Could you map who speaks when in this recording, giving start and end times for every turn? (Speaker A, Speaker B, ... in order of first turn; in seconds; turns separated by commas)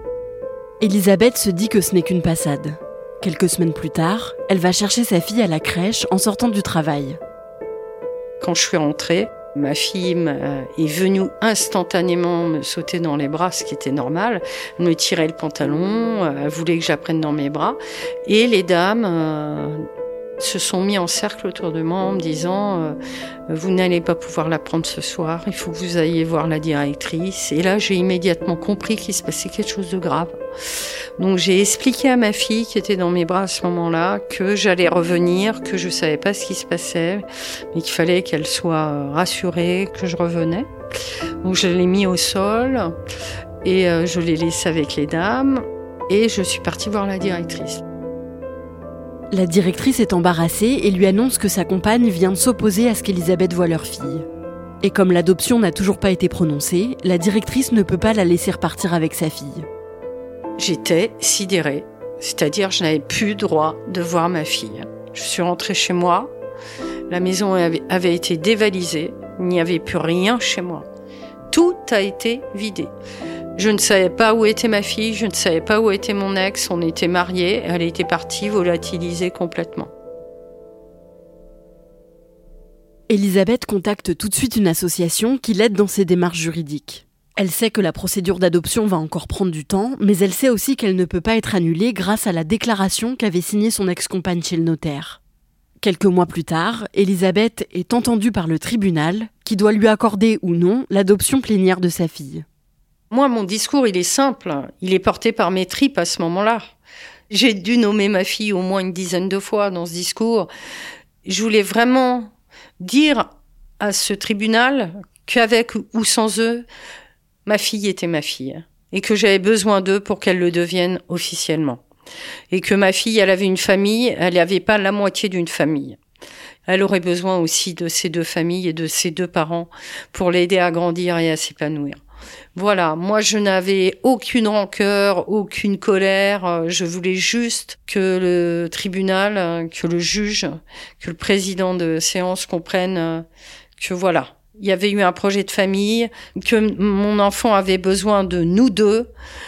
Speaker A: 0.8-7.2, Speaker B: 8.4-19.8, Speaker B: 20.4-23.0, Speaker B: 23.5-30.4, Speaker B: 31.2-40.7, Speaker B: 41.4-43.0, Speaker B: 43.6-47.8, Speaker A: 49.3-54.3, Speaker A: 54.8-59.7, Speaker B: 60.6-66.3, Speaker B: 67.1-70.9, Speaker B: 71.5-72.9, Speaker B: 73.6-79.9, Speaker A: 83.1-95.2, Speaker A: 95.8-102.5, Speaker B: 103.1-106.7, Speaker B: 107.3-110.5, Speaker B: 111.2-113.3, Speaker B: 113.8-116.7, Speaker B: 117.5-121.8, Speaker B: 122.5-126.0, Speaker B: 126.7-132.0, Speaker B: 132.6-143.2, Speaker B: 143.8-149.1